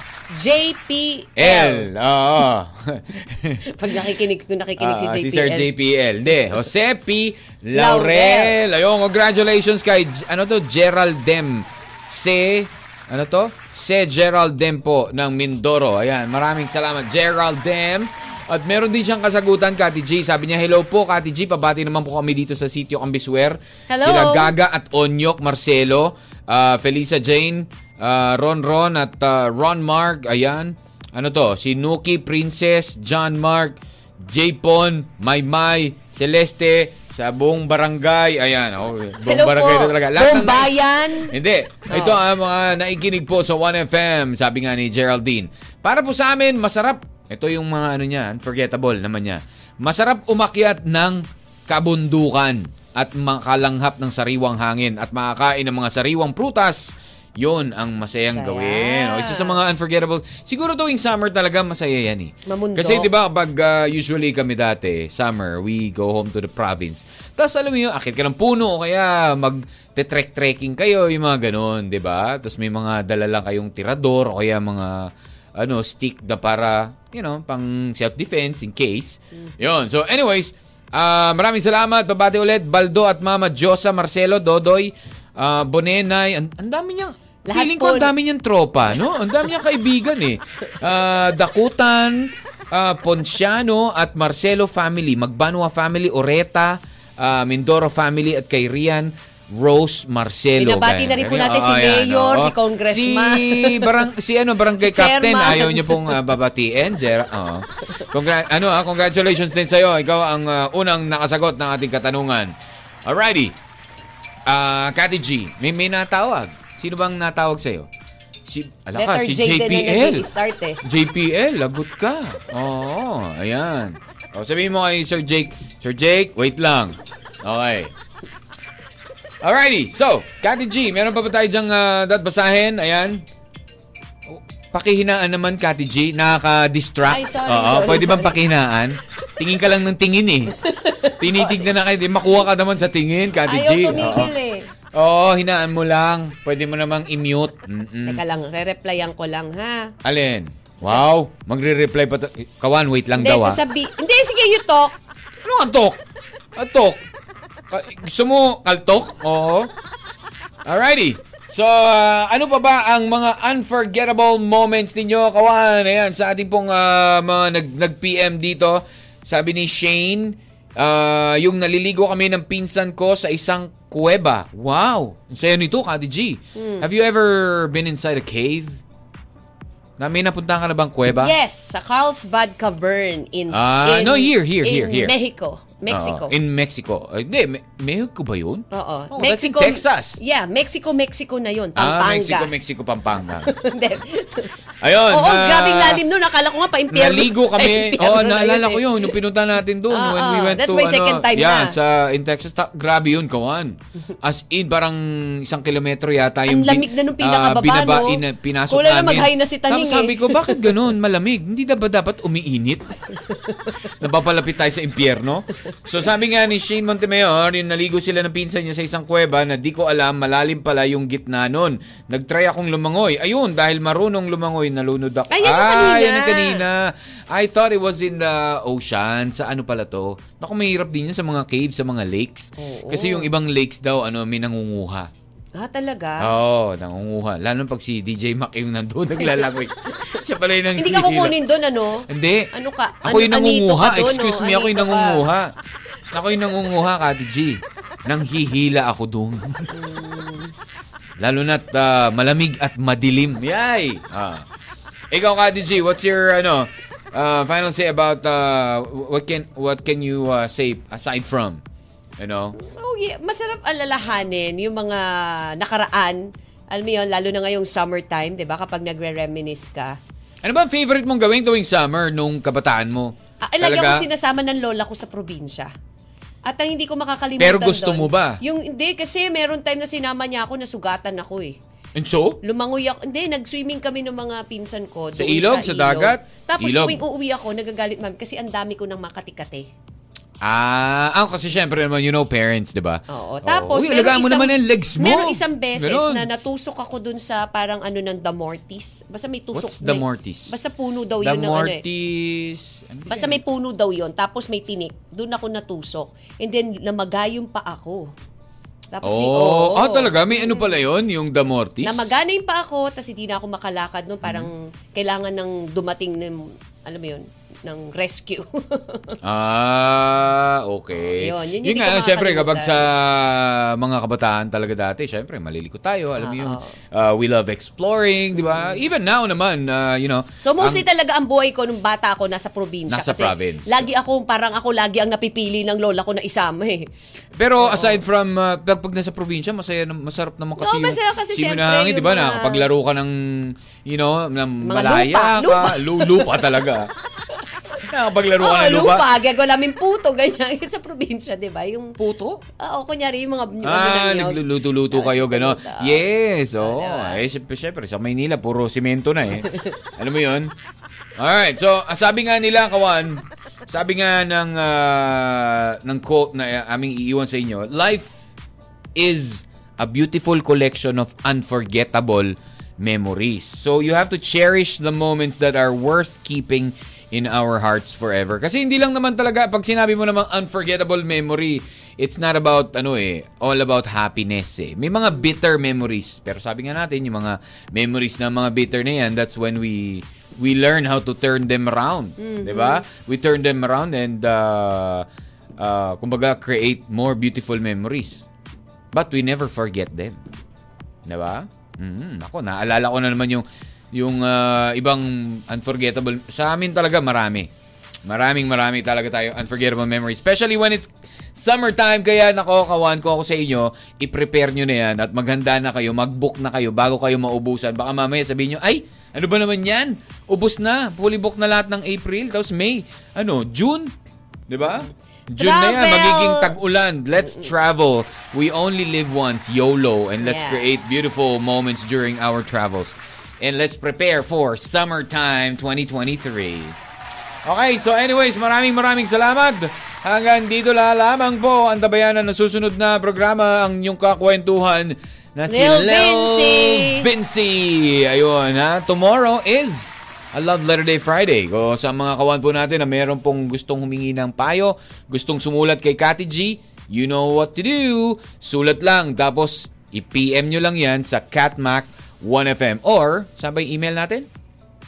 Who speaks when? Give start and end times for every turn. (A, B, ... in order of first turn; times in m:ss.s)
0:00.3-0:01.9 A
0:01.4-0:03.7 B
0:03.7-0:05.7 A
0:04.8-1:52.5 B
0:07.8-0:08.6 A
0:23.9-0:24.5 A
0:39.2-0:41.3 A
0:41.9-0:42.2 A
0:58.3-0:59.6 A
1:02.5-1:03.1 A
1:27.5-1:28.1 A
1:40.6-1:44.0 A
1:44.8-1:46.2 A
1:53.1-1:53.6 B
1:54.5-1:57.9 B
1:58.5-2:00.3 B
1:59.0-2:00.8 A
2:00.8-2:07.9 B
2:09.4-2:13.2 B
2:14.3-2:20.5 B
2:17.1-2:18.4 A
2:20.6-2:21.7 A
2:21.2-2:24.3 B
2:23.5-2:24.7 A
2:25.0-2:28.2 B
2:28.1-2:29.9 A
2:30.0-2:33.6 B
2:33.2-2:35.0 A
2:35.4-2:36.0 B
2:36.6-2:37.0 B
2:37.7-2:39.7 B
2:40.6-2:58.8 B
2:56.6-2:56.9 A
3:00.0-3:01.3 B
3:01.2-3:06.3 A
3:03.5-3:05.2 B
3:05.9-3:10.2 B
3:08.7-3:12.5 A
3:11.8-3:13.5 B
3:13.5-3:14.5 A
3:14.8-3:16.0 B
3:15.1-3:19.2 A
3:16.9-3:32.9 B
3:19.9-3:21.8 A
3:26.5-3:30.7 A
3:33.5-3:33.7 A
3:34.0-3:55.1 B
3:45.3-3:46.6 A
3:52.6-3:53.3 A
3:55.6-3:56.3 A
3:56.2-4:01.4 B
4:00.8-4:05.2 A
4:02.1-4:02.5 B
4:03.0-4:05.5 B
4:06.1-4:09.7 B
4:09.7-4:10.5 A
4:11.2-4:14.5 B
4:15.1-4:21.6 B
4:22.2-4:22.6 B
4:22.6-4:30.0 A
4:30.4-4:34.1 B
4:33.4-4:35.7 A
4:36.5-4:41.6 A
4:37.4-4:38.4 B
4:42.0-4:42.4 B
4:42.4-4:49.7 A
4:45.2-4:47.0 B
4:50.4-4:56.3 B
4:53.1-5:01.8 A
4:59.5-5:00.5 B
5:01.2-5:03.4 B
5:03.1-5:08.1 A
5:08.9-5:10.8 A
5:09.0-5:12.1 B
5:11.8-5:19.2 A
5:14.2-5:14.5 B
5:19.2-5:30.8 B
5:21.1-5:22.9 A
5:26.2-5:26.8 A
5:28.5-5:28.8 A
5:30.4-5:36.9 A
5:32.9-5:33.9 B
5:37.4-5:46.9 B
5:37.6-5:38.0 A
5:40.6-5:42.6 A
5:44.6-5:46.4 A
5:47.9-5:49.1 B
5:48.4-5:52.0 A
5:52.0-5:52.4 B
5:52.6-5:56.0 A
5:53.6-6:00.5 B
5:56.6-5:57.2 A
6:01.2-6:08.2 B
6:09.0-6:35.1 B
6:32.2-6:32.8 A
6:35.6-6:38.2 B
6:38.9-6:40.2 B
6:41.1-6:47.5 B
6:48.1-7:03.9 B
7:04.5-7:16.8 B
7:04.7-7:06.5 A
7:10.2-7:10.7 A
7:17.4-7:44.3 B
7:25.5-7:27.1 A